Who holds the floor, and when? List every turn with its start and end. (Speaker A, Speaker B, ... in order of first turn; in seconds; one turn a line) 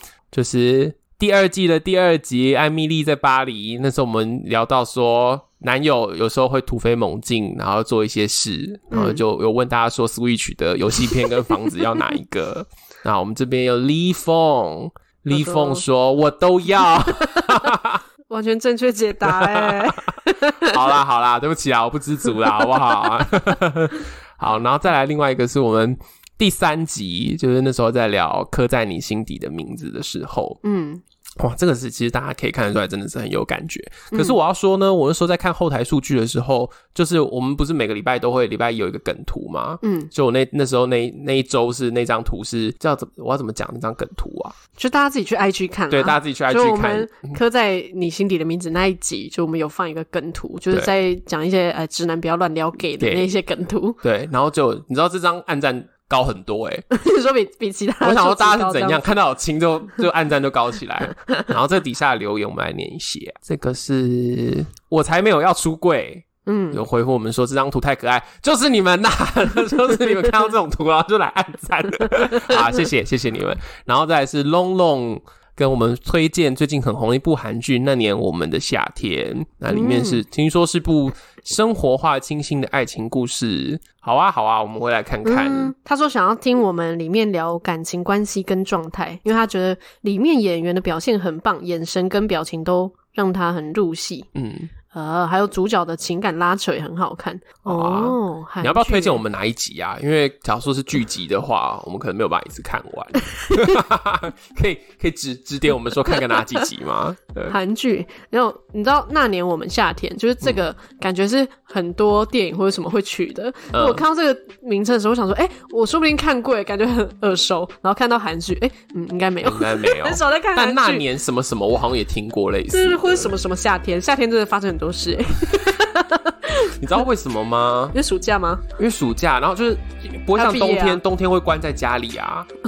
Speaker A: 0.3-18.0
Speaker B: 8.9-9.2
Speaker B: 15.3-15.8
Speaker B: 17.2-17.7
Speaker B: 18.3-20.8
Speaker A: 19.2-30.6
Speaker B: 22.4-22.8
Speaker B: 30.6-31.0
Speaker A: 31.4-44.5
Speaker B: 34.1-34.4
Speaker B: 39.8-40.1
Speaker B: 44.8-54.0
Speaker A: 45.9-47.4
Speaker A: 53.0-53.3
Speaker A: 54.0-56.8
Speaker B: 56.9-59.1
Speaker A: 58.0-85.7
Speaker B: 66.5-66.8
Speaker B: 79.7-80.2
Speaker B: 85.2-94.3
Speaker A: 94.3-94.7
Speaker B: 94.9-99.2
Speaker A: 97.6-107.5
Speaker B: 107.5-121.0
Speaker A: 113.7-114.0
Speaker A: 119.4-123.3
Speaker B: 122.7-126.8
Speaker A: 126.8-128.0
Speaker B: 127.9-128.6
Speaker A: 128.8-132.5
Speaker B: 130.3-131.0